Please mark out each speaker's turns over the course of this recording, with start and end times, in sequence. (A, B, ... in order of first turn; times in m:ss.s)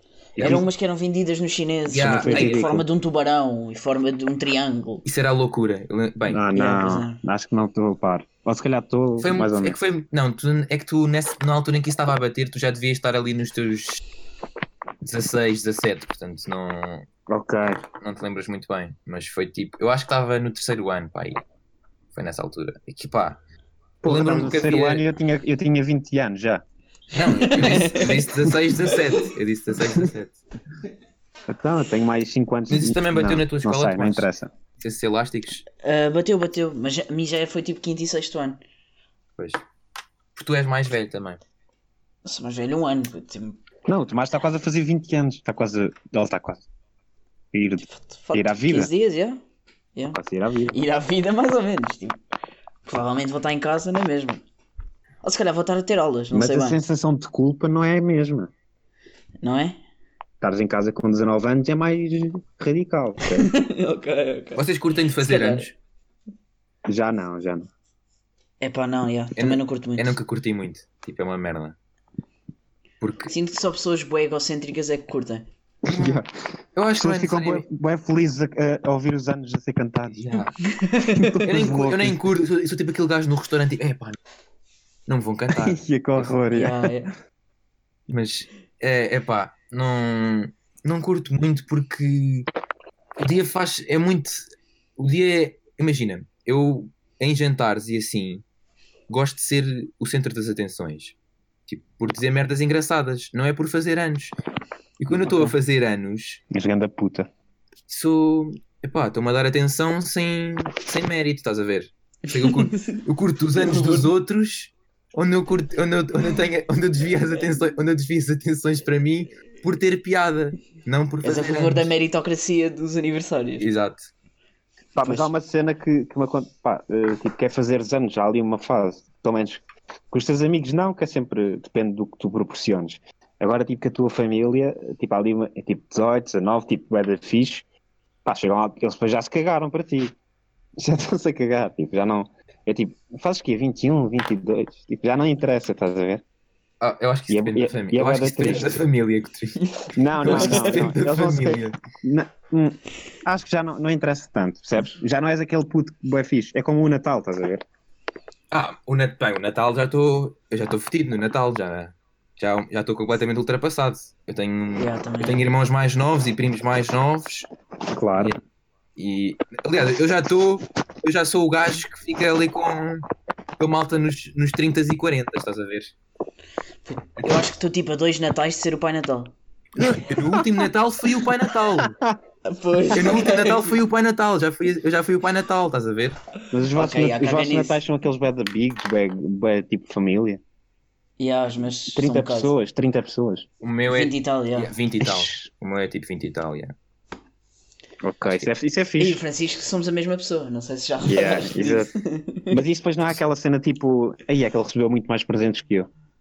0:00.4-0:00.6 A
0:00.4-0:00.6 B
0:00.4-0:05.0 C
0:01.9-0:02.7 B
0:02.2-0:02.9 A
0:05.0-0:06.4 B
0:06.3-0:09.8 A
0:06.5-0:07.2 C
0:09.2-0:14.0 B
0:15.0-0:17.1 B
0:17.3-0:17.8 A
0:18.0-0:21.4 B
0:22.2-0:23.4 B
0:24.0-0:26.6 A
0:24.0-0:25.0 B
0:27.1-0:30.4 B
0:27.2-0:29.3 C
0:31.5-0:34.5 A
0:32.7-0:34.3 B
0:34.8-0:35.6 B
0:35.8-0:38.6 C
0:40.4-0:41.4 B
0:42.2-0:43.6 C
0:43.9-0:46.6 A
0:47.5-0:48.9 A
0:47.8-0:49.4 C
0:50.1-0:50.8 A
0:50.7-0:52.2 C
0:52.8-0:54.4 C
0:55.2-0:56.8 C
0:56.3-0:58.5 A
0:59.4-0:59.8 C
1:00.4-1:03.5 A
1:03.4-1:04.7 C
1:04.6-1:05.8 B
1:05.2-1:05.7 C
1:06.9-1:07.7 A
1:08.6-1:10.2 C
1:09.4-1:11.8 B
1:13.0-1:13.3 B
1:13.3-1:15.5 C
1:15.9-1:16.3 A
1:15.9-1:16.2 B
1:16.8-1:17.6 B
1:17.0-1:20.2 A
1:20.1-1:20.6 B
1:20.7-1:21.4 C
1:21.1-1:22.2 A
1:21.4-1:24.2 B
1:25.1-1:26.4 B
1:25.5-1:26.9 A
1:26.5-1:27.1 C
1:28.1-1:32.5 B
1:33.2-1:34.4 B
1:35.0-1:38.4 B
1:39.1-1:41.2 B
1:41.7-1:44.3 B
1:45.0-1:46.4 B
1:45.3-1:45.6 C
1:46.5-1:47.3 A
1:47.9-2:01.9 B
1:52.3-1:53.0 C
1:53.6-1:54.1 C
2:01.2-2:03.7 C
2:03.6-2:04.1 B
2:05.0-2:17.6 A
2:05.0-2:05.3 C
2:18.2-2:20.2 A
2:20.8-2:26.2 A
2:26.8-2:29.7 B
2:27.3-2:28.8 A
2:29.6-2:30.8 C
2:30.0-2:37.6 A
2:30.2-2:31.8 B
2:38.5-2:47.5 B
2:44.8-2:45.4 C
2:47.9-2:48.3 A
2:49.0-2:53.0 B
2:53.6-2:55.9 B
2:56.8-2:59.3 C
2:59.8-3:02.0 B
3:01.8-3:02.2 A
3:02.4-3:03.8 C
3:02.9-3:06.2 B
3:06.5-3:10.4 A
3:06.7-3:07.8 C
3:11.2-3:12.5 C
3:11.9-3:13.5 A
3:13.6-3:16.7 B
3:13.9-3:14.7 C
3:15.0-3:15.5 A
3:18.0-3:19.2 A
3:19.0-3:22.6 C
3:21.0-3:21.9 A
3:22.5-3:25.9 A